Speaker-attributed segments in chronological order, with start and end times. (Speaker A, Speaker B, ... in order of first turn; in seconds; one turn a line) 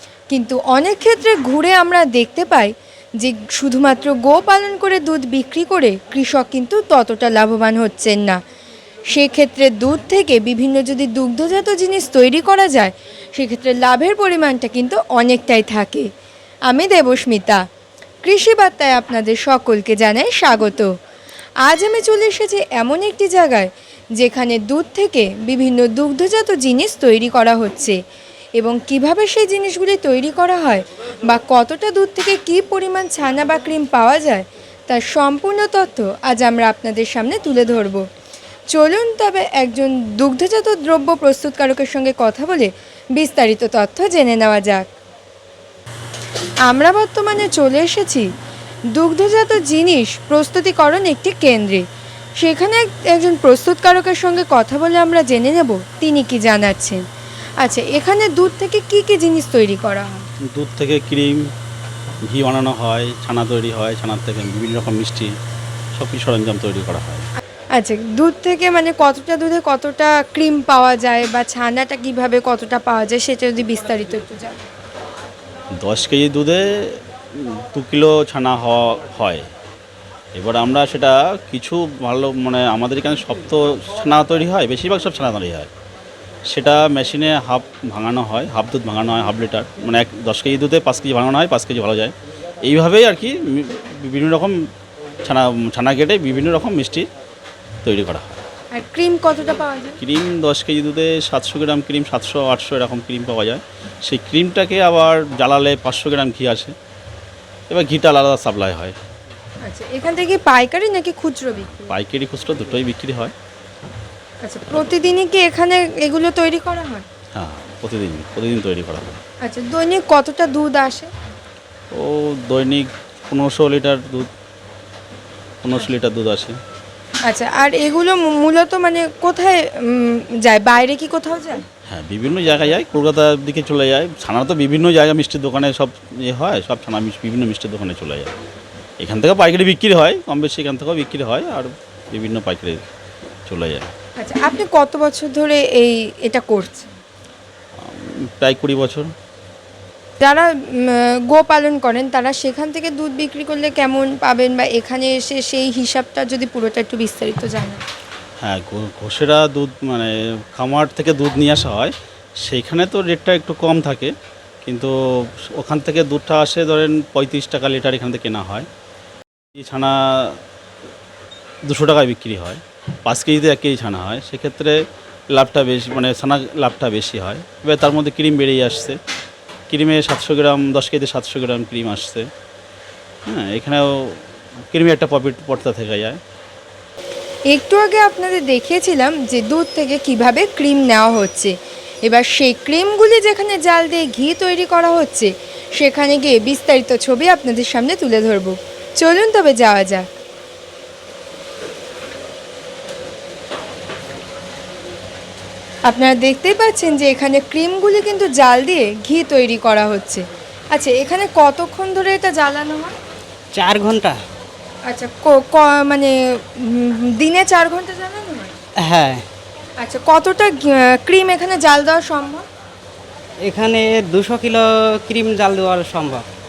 Speaker A: 0.3-8.4
Speaker A: 9.1-16.1
Speaker A: 16.7-17.6
Speaker A: 18.2-20.9
Speaker A: 21.6-28.0
Speaker A: 28.6-38.0
Speaker A: 38.7-44.9
Speaker A: 46.7-48.3
Speaker A: 48.9-51.8
Speaker A: 52.4-57.0
Speaker A: 57.6-60.3
Speaker B: 60.5-61.5
Speaker B: 62.3-65.3
Speaker B: 66.0-67.2
Speaker A: 67.7-74.6
Speaker B: 75.8-79.5
Speaker B: 80.3-85.7
Speaker B: 86.5-94.6
Speaker B: 95.2-97.1
Speaker B: 97.8-98.4
Speaker A: 98.7-100.0
Speaker B: 100.0-106.7
Speaker B: 107.7-108.9
Speaker A: 109.6-111.9
Speaker B: 111.9-113.3
Speaker A: 114.4-117.0
Speaker B: 117.3-119.2
Speaker A: 119.4-121.1
Speaker B: 121.9-124.3
Speaker B: 125.6-126.5
Speaker A: 127.2-131.6
Speaker B: 131.9-138.3
Speaker B: 139.0-142.8
Speaker B: 143.5-143.9
Speaker A: 144.2-146.9
Speaker B: 147.8-149.1
Speaker A: 150.2-157.8
Speaker B: 158.4-161.9
Speaker B: 162.4-164.1
Speaker B: 164.6-168.7
Speaker B: 169.6-170.4
Speaker B: 171.7-174.8
Speaker B: 175.3-179.0
Speaker B: 179.7-182.3
Speaker B: 183.2-186.2
Speaker A: 187.5-200.1
Speaker A: 205.9-212.9
Speaker C: 213.5-214.2
Speaker A: 214.9-218.6
Speaker C: 218.8-219.2
Speaker A: 219.8-222.4
Speaker C: 223.4-226.2